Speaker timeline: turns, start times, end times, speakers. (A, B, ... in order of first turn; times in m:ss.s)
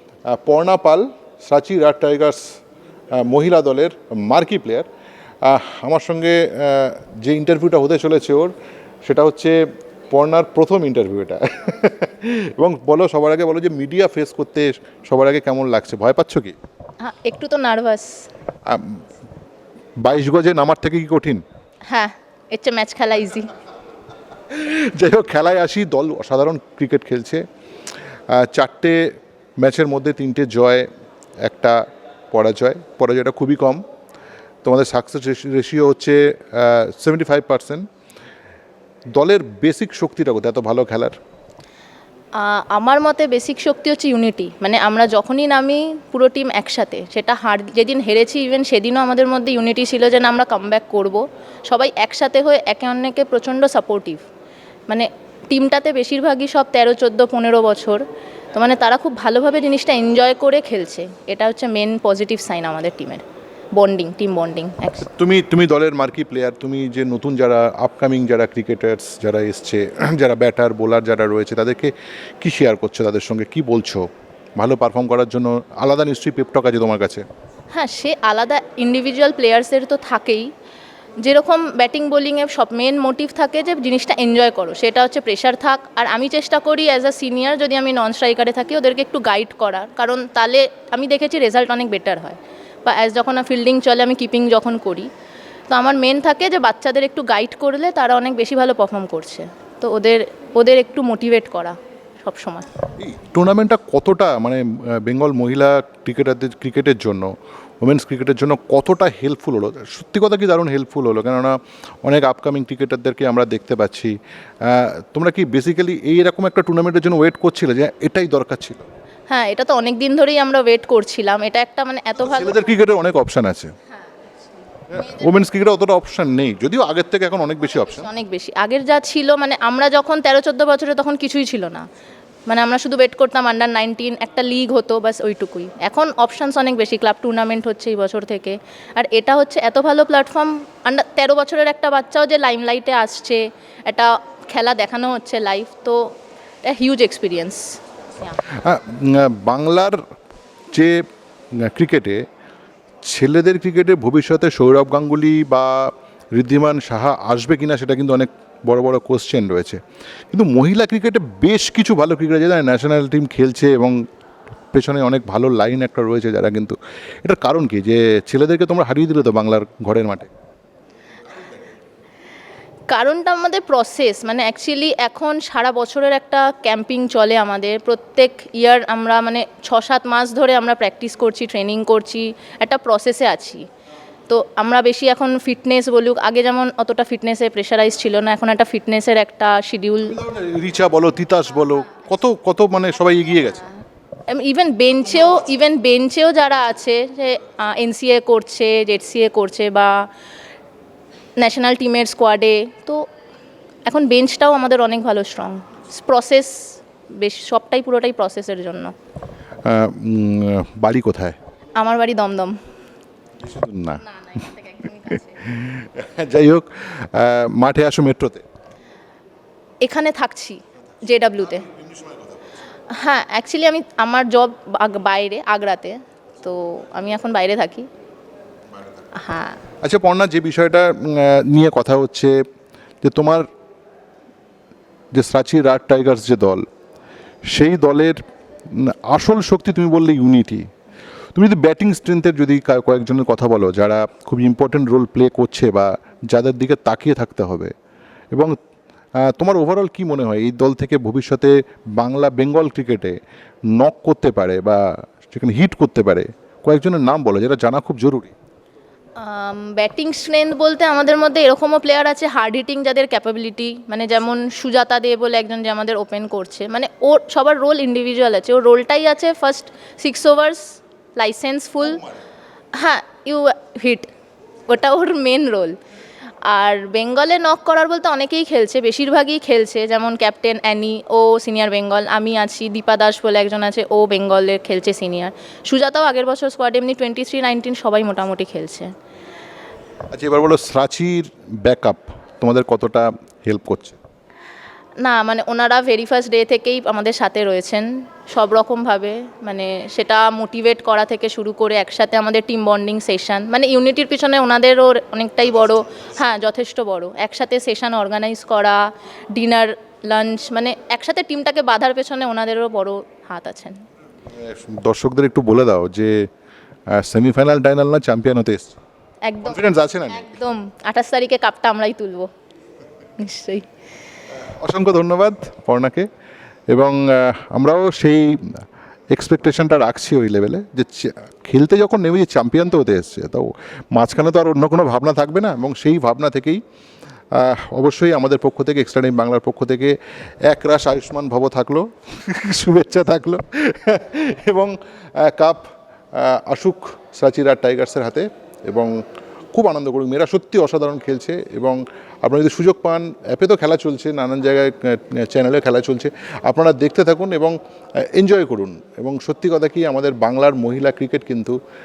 0:00.3-0:02.6 A
0:03.2-0:04.8 A
0:05.4-0:08.5 A
0:09.0-0:09.6 A
0:10.1-0:16.5 A
0:17.0-0:18.3 B
0:18.7-0:19.0 A
0:20.0-0:21.4 A
0:21.9-0:23.5 B
0:24.5-0:27.4 A
0:28.3-0:29.0 A
0:29.6-0:30.9 A
0:31.4-0:31.8 A
0:32.3-0:33.8 A
0:34.6-0:37.8 A
0:39.1-0:41.2 A
0:42.4-0:54.2 B
0:54.9-1:03.2 B
1:03.8-1:05.1 B
1:05.1-1:17.2 A
1:17.7-1:20.5 B
1:21.2-1:35.1 B
1:35.7-1:42.7 B
1:43.0-1:58.8 A
1:59.3-2:02.6 B
2:02.2-2:03.7 A
2:04.9-2:08.1 A
2:04.9-2:05.3 B
2:07.6-2:11.8 B
2:12.5-2:26.1 B
2:26.6-2:28.4 B
2:28.5-2:30.0 A
2:30.7-2:31.0 A
2:31.6-2:32.2 A
2:33.0-2:39.8 A
2:40.3-2:44.0 A
2:44.7-2:50.3 A
2:52.9-3:03.6 B
3:04.3-3:10.1 B
3:10.0-3:13.7 A
3:14.3-3:20.1 B
3:21.4-3:23.0 B
3:23.9-3:28.9 B
3:29.6-3:31.4 A
3:31.8-3:32.6 B
3:33.4-3:34.0 A
3:34.0-3:35.4 B
3:35.1-3:38.4 A
3:39.8-3:41.7 B
3:41.8-3:42.2 A
3:42.9-3:47.9 B
3:49.2-3:49.6 B
3:49.8-3:52.4 A
3:53.0-3:53.5 A
3:55.1-3:56.6 A
3:57.5-3:58.2 A
3:58.7-4:00.7 A
4:01.3-4:07.7 A
4:09.2-4:13.2 A
4:13.7-4:18.3 A
4:19.2-4:32.1 B
4:32.8-4:34.1 B
4:34.7-4:35.8 B
4:36.4-4:48.9 B
4:50.1-4:54.0 A
4:55.0-5:08.8 B
5:09.3-5:13.8 B
5:14.4-5:16.1 A
5:16.9-5:18.8 A
5:19.2-5:22.3 B
5:19.4-5:20.3 A
5:23.2-5:23.6 B
5:24.5-5:26.1 A
5:26.7-5:28.6 A
5:29.1-5:36.6 A
5:37.3-5:40.0 A
5:40.5-6:01.6 A